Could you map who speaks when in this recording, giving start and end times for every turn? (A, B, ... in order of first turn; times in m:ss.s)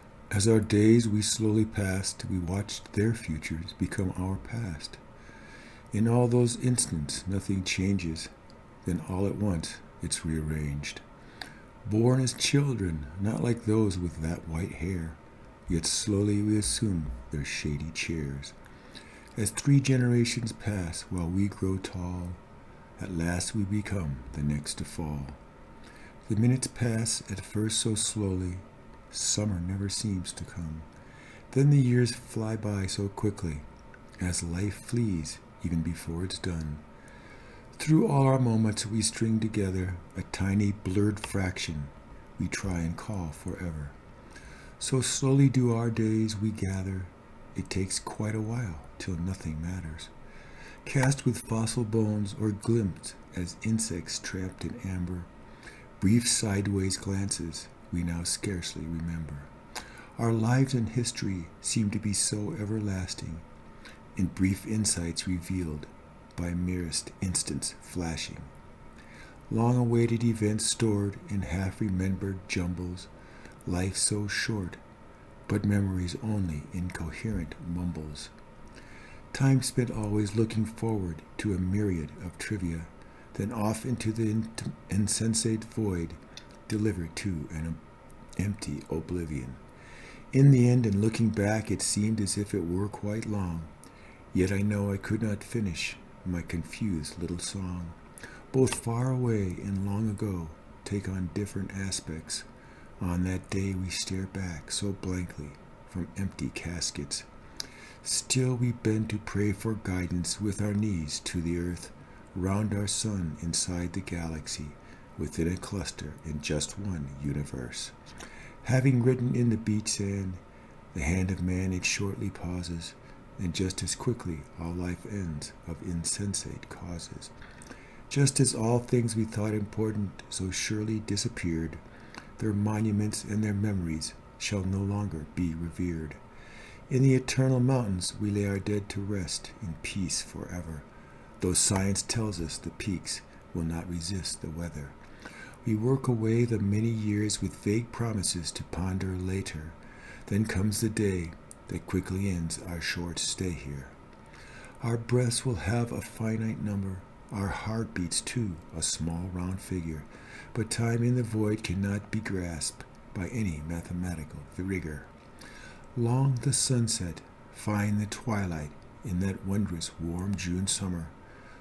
0:00.3-0:05.0 A
0:05.9-0:08.3 A
0:08.8-0:11.0 A
0:11.8-0:18.5 A
0:19.4-0:22.4 A
0:23.0-0:25.4 A
0:26.2-0:30.9 A
0:31.5-0:33.7 A
0:34.2-0:36.8 A
0:37.8-0:44.0 A
0:44.8-0:50.1 A
0:50.8-0:55.3 A
0:56.0-0:59.5 A
1:00.2-1:03.4 A
1:04.2-1:08.5 A
1:09.5-1:13.1 A
1:13.6-1:14.8 A
1:15.5-1:18.3 A
1:19.3-1:27.8 A
1:28.4-1:29.6 A
1:30.3-1:33.7 A
1:34.3-1:38.0 A
1:38.5-1:42.5 A
1:43.0-1:47.3 A
1:48.0-1:57.9 A
1:58.6-2:00.4 A
2:00.9-2:07.3 A
2:08.1-2:11.8 A
2:12.4-2:16.2 A
2:16.9-2:20.9 A
2:21.4-2:25.0 A
2:25.6-2:34.0 A
2:34.8-2:45.1 A
2:45.9-2:51.1 A